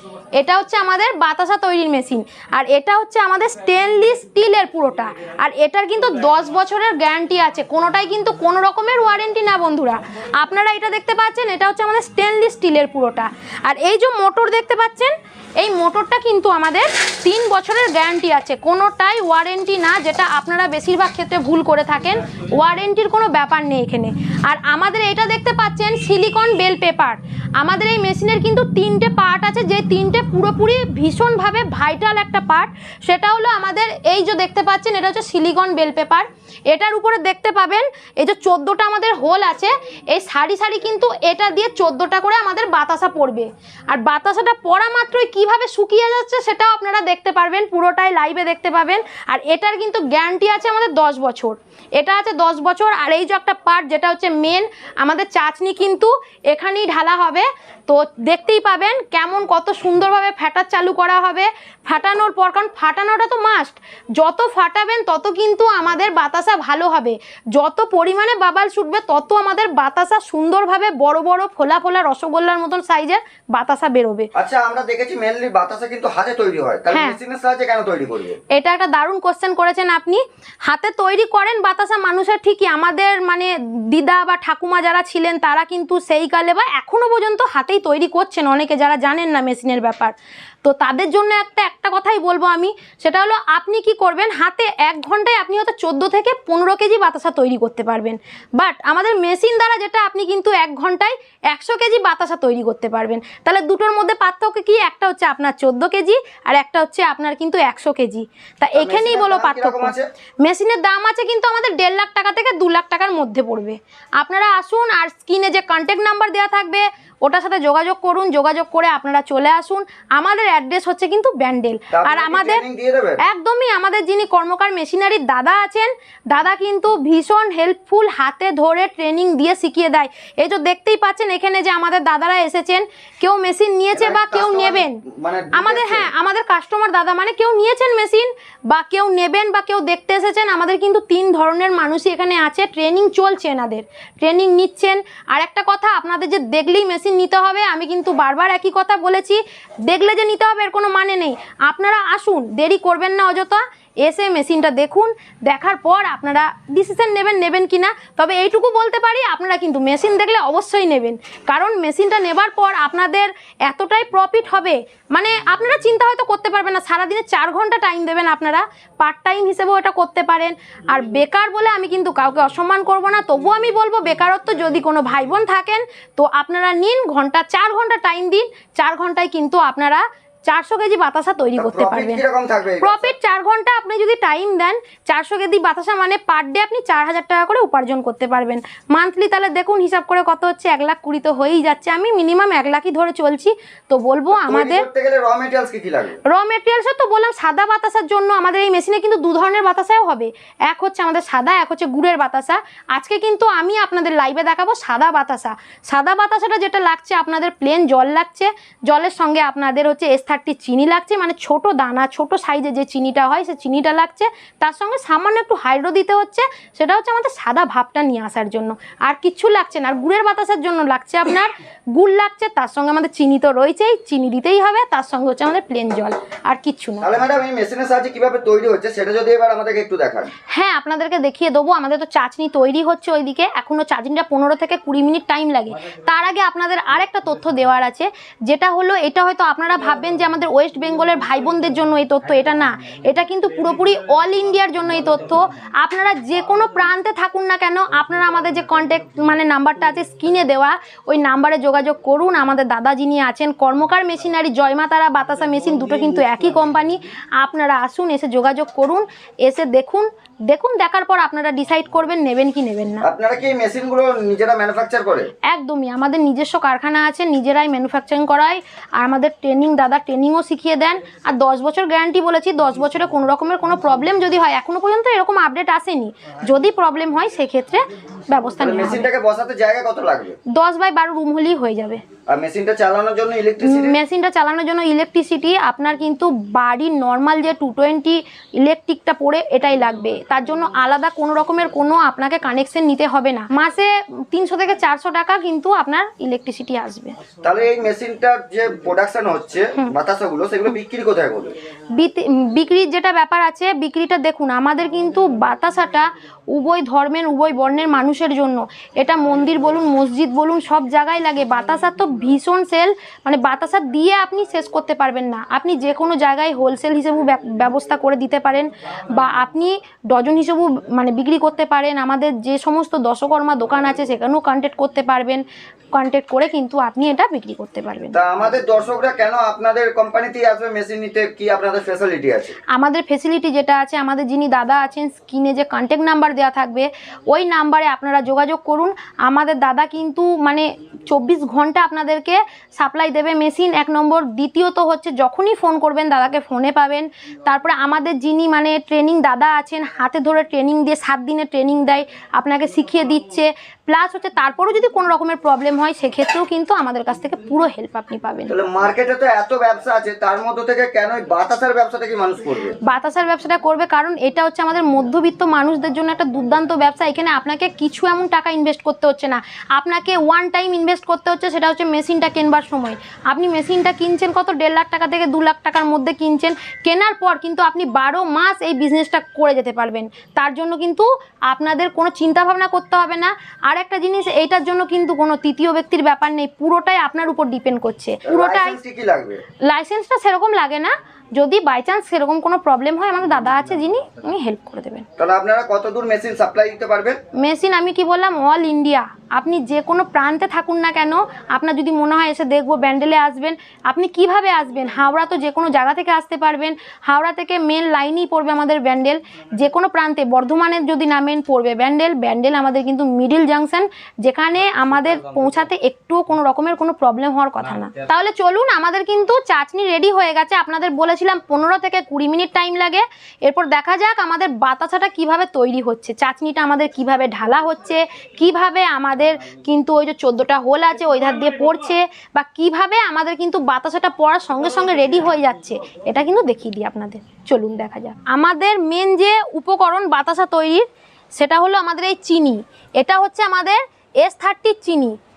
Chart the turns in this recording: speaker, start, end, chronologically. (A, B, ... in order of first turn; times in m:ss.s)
0:00.3-1:14.3 A
1:14.4-1:18.4 B
1:16.9-1:17.2 A
1:18.5-2:02.6 A
1:48.8-1:50.1 B
2:01.9-2:03.2 B
2:03.2-2:15.0 A
2:13.9-2:16.1 B
2:15.5-3:02.2 A
3:01.6-3:03.1 B
3:02.8-3:14.8 A
3:14.3-3:16.2 B
3:16.3-3:47.1 A
3:47.0-3:50.3 B
3:50.5-4:23.1 A
4:23.0-4:25.3 B
4:25.4-4:39.1 A
4:38.6-4:40.4 B
4:40.5-4:42.0 A
4:42.3-4:44.0 B
4:43.6-4:57.2 A
4:57.4-5:01.6 B
5:01.9-5:28.1 A
5:28.1-5:32.6 B
5:32.7-5:58.5 A
5:58.5-6:02.8 B
6:02.8-6:28.8 A
6:28.2-6:29.4 B
6:29.6-6:35.0 A
6:35.2-6:37.2 B
6:37.4-7:25.2 A